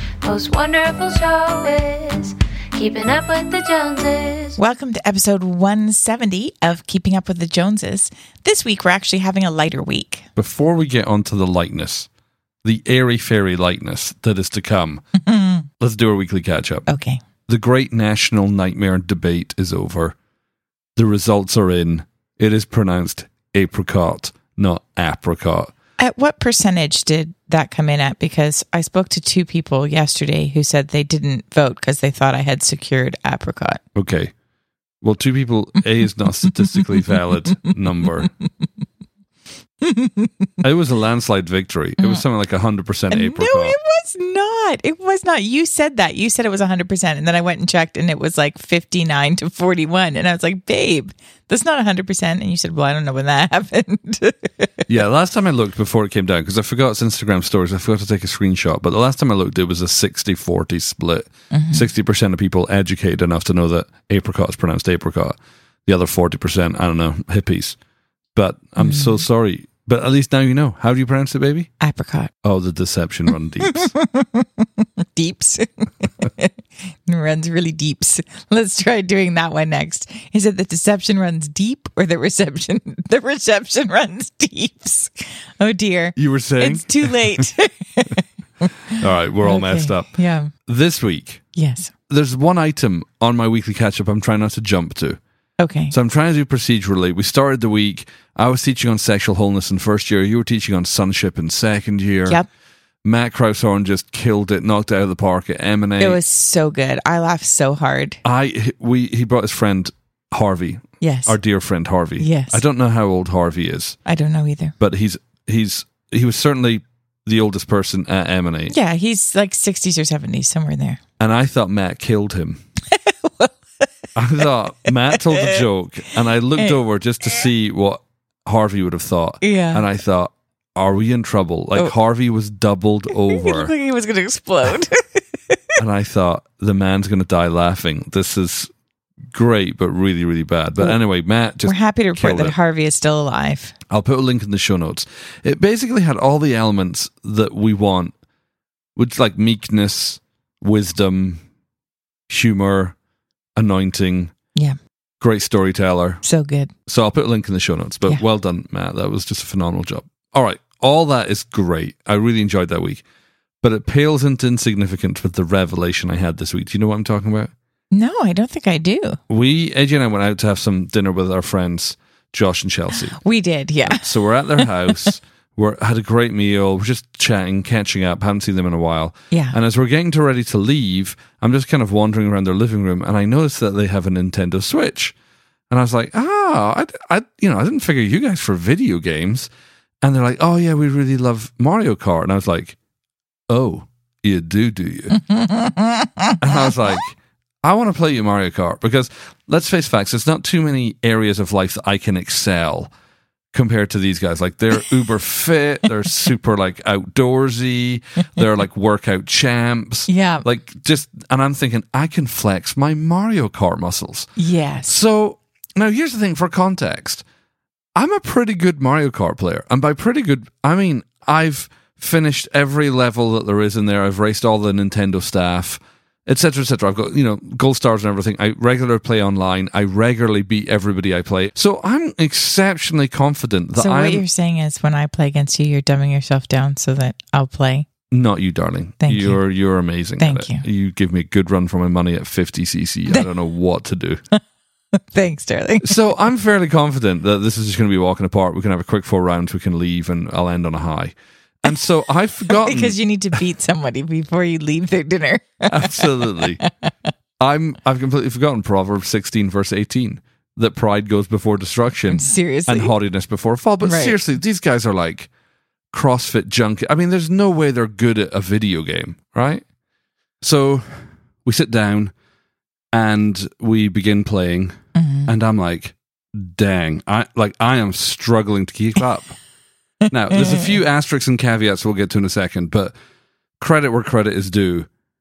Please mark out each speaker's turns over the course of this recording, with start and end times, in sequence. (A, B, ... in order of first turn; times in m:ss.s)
0:00.2-0:04.6 A
0:04.6-0:10.3 B
0:10.4-0:12.1 C
0:12.6-0:15.0 C
0:15.2-0:15.7 B
0:15.8-0:16.9 C
0:16.9-0:17.2 B
0:17.5-0:20.2 C
0:21.0-0:25.7 C
0:26.0-0:33.8 B
0:33.9-0:34.3 C
0:35.0-0:38.3 C
0:36.7-0:38.1 B
0:39.8-0:40.4 B
0:40.6-0:43.8 C
0:43.1-0:54.8 B
0:54.9-1:07.8 C
1:01.5-1:01.9 B
1:08.3-1:11.7 C
1:08.8-1:09.2 B
1:11.8-1:12.3 B
1:12.4-1:13.9 C
1:13.6-1:16.5 B
1:17.0-1:30.5 B
1:26.2-1:27.4 C
1:29.0-1:30.1 C
1:30.6-1:31.4 C
1:31.5-1:31.9 B
1:32.1-1:35.2 C
1:35.6-1:35.9 B
1:35.9-1:42.4 C
1:43.0-1:46.2 C
1:46.0-1:48.2 B
1:48.2-1:54.0 C
1:51.0-1:51.4 B
1:52.2-1:52.6 B
1:54.0-1:54.7 B
1:54.8-1:58.7 C
1:58.7-2:01.0 B
2:01.2-2:02.6 C
2:03.0-2:03.5 B
2:04.1-2:13.7 C
2:05.1-2:05.6 B
2:06.6-2:07.4 B
2:09.4-2:09.8 B
2:13.2-2:15.2 B
2:15.8-2:18.7 C
2:19.3-2:22.5 C
2:21.6-2:23.7 B
2:23.9-2:28.1 C
2:29.0-2:31.4 C
2:32.3-2:32.9 C
2:33.6-2:34.3 C
2:35.2-2:36.2 C
2:36.2-2:36.7 B
2:36.9-2:43.0 C
2:43.6-2:47.5 C
2:47.9-2:49.2 B
2:49.3-2:53.2 C
2:53.2-2:55.0 B
2:53.8-3:05.1 C
2:59.3-2:59.6 B
3:05.7-3:09.5 C
3:10.0-3:12.8 C
3:13.5-3:15.2 C
3:15.1-3:16.4 B
3:16.4-3:22.9 C
3:23.5-3:34.3 C
3:30.1-3:30.4 B
3:34.4-3:34.9 B
3:34.8-3:37.2 C
3:37.9-3:54.2 C
3:53.8-3:57.9 B
3:58.1-4:04.2 C
3:59.0-3:59.4 B
4:00.2-4:00.6 B
4:05.0-4:06.0 B
4:05.8-4:13.0 C
4:12.5-4:16.9 B
4:15.7-4:16.6 C
4:17.4-4:25.3 C
4:22.1-4:22.9 B
4:23.8-4:24.1 B
4:25.9-4:29.6 C
4:30.4-4:32.1 C
4:32.9-4:39.4 C
4:34.9-4:35.3 B
4:40.1-4:42.9 C
4:43.6-4:44.9 C